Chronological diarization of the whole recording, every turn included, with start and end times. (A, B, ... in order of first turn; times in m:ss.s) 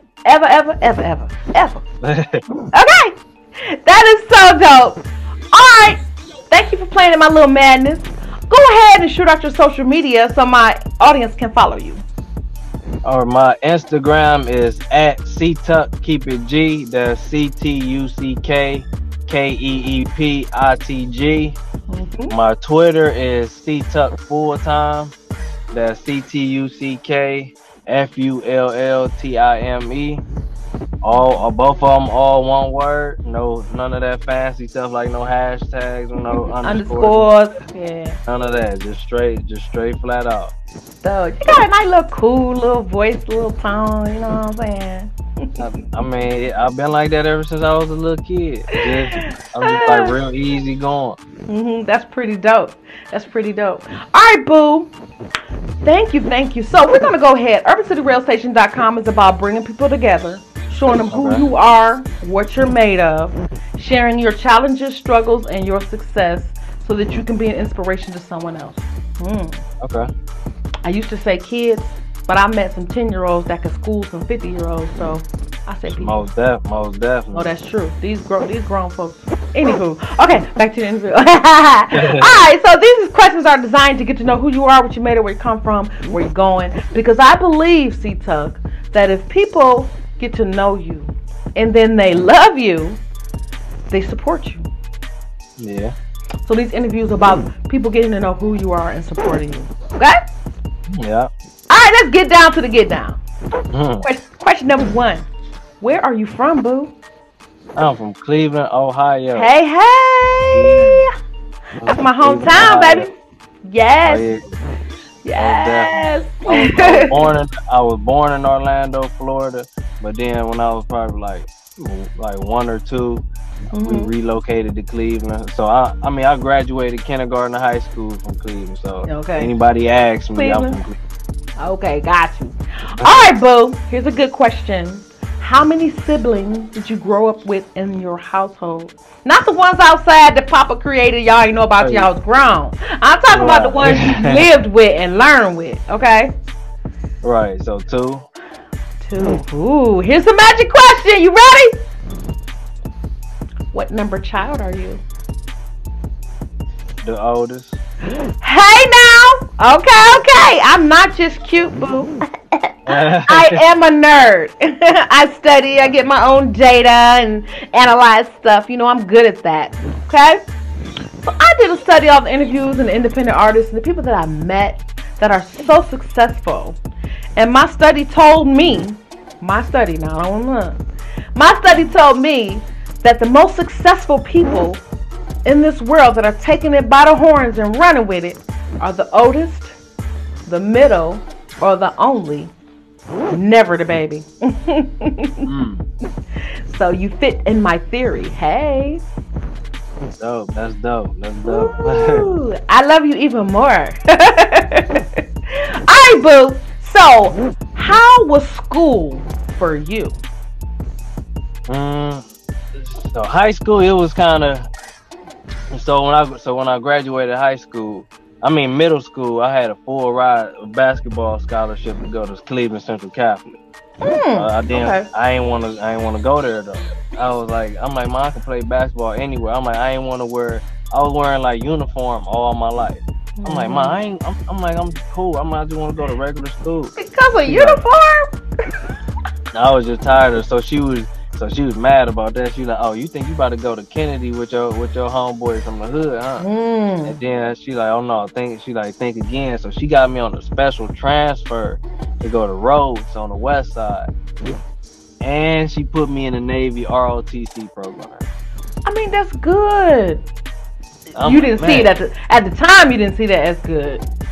0:00.2-0:01.8 A
0:02.0-0:02.4 B
0:02.7-0:12.0 A
0:13.0-0:21.6 B
0:21.9-0:22.3 A
0:22.3-0:25.1 B
0:25.7-0:30.2 B
0:31.0-0:37.3 B
0:31.1-0:31.4 A
0:36.3-0:38.2 A
0:38.3-0:40.5 B
0:41.0-0:45.6 A
0:45.6-0:51.2 B
0:48.8-0:50.1 A
0:51.5-0:54.9 A
0:55.8-1:09.6 A
1:01.1-1:01.4 B
1:09.8-1:10.1 B
1:10.8-1:16.2 A
1:15.9-1:17.5 B
1:17.3-1:33.0 A
1:21.9-1:22.3 B
1:33.9-1:34.7 A
1:35.6-1:35.9 B
1:36.4-1:40.2 A
1:40.9-1:41.3 B
1:41.7-1:43.2 A
1:43.7-1:44.0 B
1:44.0-1:45.3 A
1:45.8-1:46.9 A
1:47.8-1:49.5 B
1:49.3-1:51.1 A
1:50.5-1:51.0 B
1:51.8-1:53.0 B
1:51.8-1:53.1 A
1:53.6-1:54.2 A
1:54.0-1:54.5 B
1:55.2-1:57.3 A
1:55.4-2:11.0 B
2:03.7-2:04.1 A
2:09.0-2:09.5 A
2:10.3-2:10.8 A
2:11.6-2:26.4 A
2:21.8-2:22.1 B
2:23.3-2:24.4 B
2:27.2-2:28.2 B
2:29.0-2:31.8 A
2:33.7-2:35.0 A
2:37.0-2:37.8 B
2:38.4-2:50.4 A
2:42.8-2:43.6 B
2:51.2-2:56.8 A
2:57.4-3:00.8 A
3:01.3-3:04.8 A
3:05.4-3:09.7 A
3:10.4-3:12.5 A
3:13.3-3:15.5 A
3:15.4-3:15.8 B
3:16.7-3:19.0 A
3:20.2-3:22.3 B
3:21.4-3:30.2 A
3:31.7-3:34.7 B
3:35.7-3:43.6 B
3:44.0-3:45.1 A
3:44.3-3:56.9 B
3:53.4-3:54.0 A
3:57.0-3:58.3 A
3:57.4-3:57.8 B
3:59.5-4:06.5 B
4:06.4-4:07.2 A
4:07.0-4:14.1 B
4:15.2-4:18.2 B
4:18.8-4:20.2 A
4:21.1-4:24.0 A
4:21.2-4:21.9 B